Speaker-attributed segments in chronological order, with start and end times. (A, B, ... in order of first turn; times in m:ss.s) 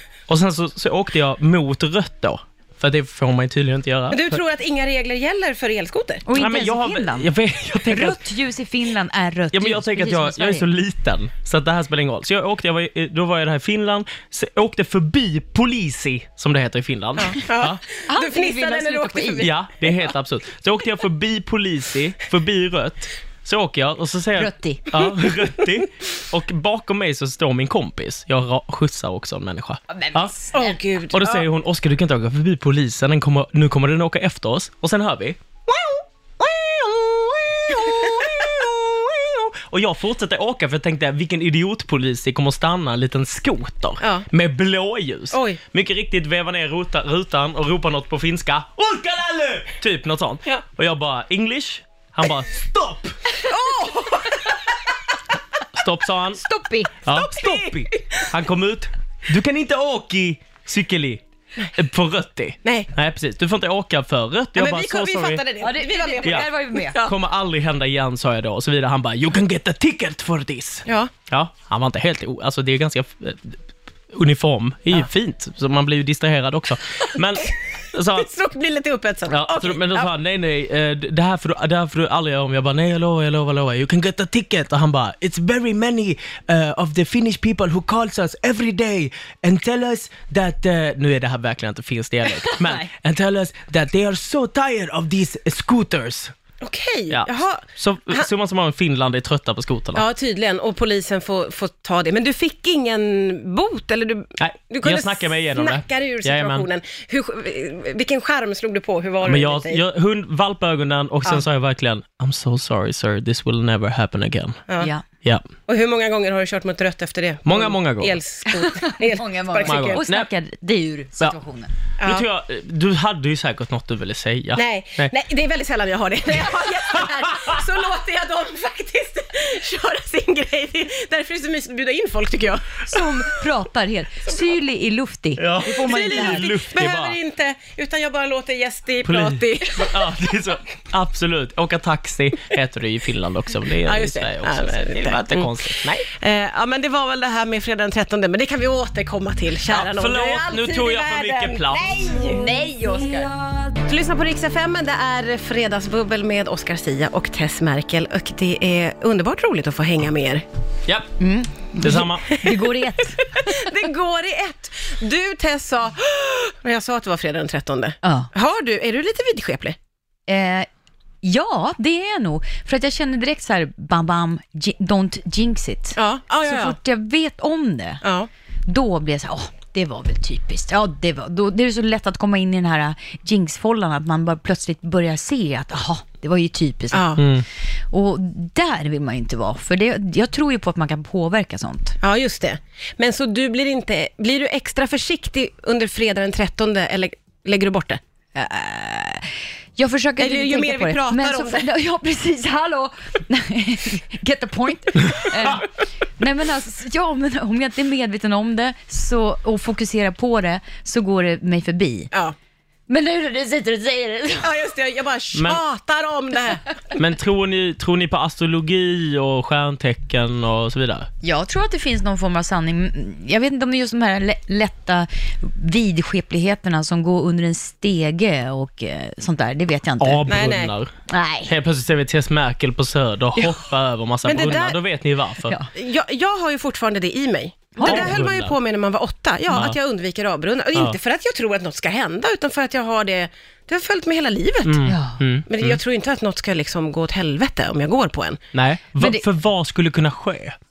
0:00.3-0:04.4 A
0:04.1-0:06.2 B
0:06.3-0:07.3 C
0:06.4-0:08.2 A
0:07.8-0:10.7 C
0:09.5-0:17.8 A
0:17.2-0:19.6 B
0:18.1-0:19.5 C
0:19.4-0:30.4 A
0:24.4-0:25.1 C
0:29.9-0:30.8 C
0:30.5-0:31.5 B
0:31.1-0:35.4 A
0:35.7-0:38.7 B
0:37.7-0:53.2 A
0:44.0-0:44.3 B
0:45.3-0:45.6 B
0:53.4-0:54.6 B
0:55.7-0:56.4 A
0:56.4-0:56.9 C
0:57.0-1:01.2 A
0:57.1-0:58.3 B
1:01.7-1:05.4 A
1:02.6-1:02.9 B
1:04.6-1:07.1 B
1:05.6-1:07.0 C
1:06.2-1:13.6 A
1:10.9-1:11.1 B
1:14.1-1:18.3 A
1:18.2-1:20.1 B
1:19.3-1:36.3 A
1:36.6-1:38.3 B
1:37.1-1:40.0 A
1:40.0-1:49.8 B
1:44.4-1:46.7 A
1:49.2-1:54.6 A
1:55.2-1:55.5 A
1:55.7-2:00.0 B
1:57.5-1:58.2 A
1:58.5-2:01.7 C
1:59.6-2:00.3 A
2:02.0-2:02.3 B
2:02.0-2:05.1 A
2:04.6-2:13.1 B
2:07.0-2:07.6 A
2:12.9-2:16.5 C
2:15.4-2:17.2 A
2:15.7-2:20.1 B
2:19.0-2:26.1 A
2:23.8-2:32.5 B
2:29.7-2:32.1 A
2:32.3-2:33.4 C
2:33.8-2:40.4 B
2:41.2-2:43.7 C
2:41.8-2:42.3 A
2:42.3-2:49.8 B
2:48.0-2:48.3 C
2:50.3-2:50.7 C
2:51.2-2:58.0 C
2:56.0-2:56.8 B
2:58.0-2:58.3 B
2:58.7-3:07.2 C
3:06.9-3:07.2 B
3:07.2-3:07.4 A
3:07.9-3:12.0 C
3:12.0-3:18.0 B
3:18.4-3:32.1 C
3:20.2-3:21.7 B
3:32.9-3:34.5 C
3:34.4-3:36.8 B
3:35.3-3:35.6 A
3:37.0-3:41.1 A
3:41.2-3:50.3 C
3:50.0-3:50.9 A
3:50.3-3:50.7 B
3:51.1-3:51.5 C
3:51.5-3:55.6 A
3:54.2-3:54.8 B
3:55.7-4:04.8 B
3:57.8-3:58.1 C
3:57.8-3:58.6 A
3:59.5-3:59.8 A
4:04.6-4:05.8 A
4:04.9-4:05.2 C
4:05.5-4:08.4 B
4:08.5-4:10.6 A
4:09.0-4:09.2 C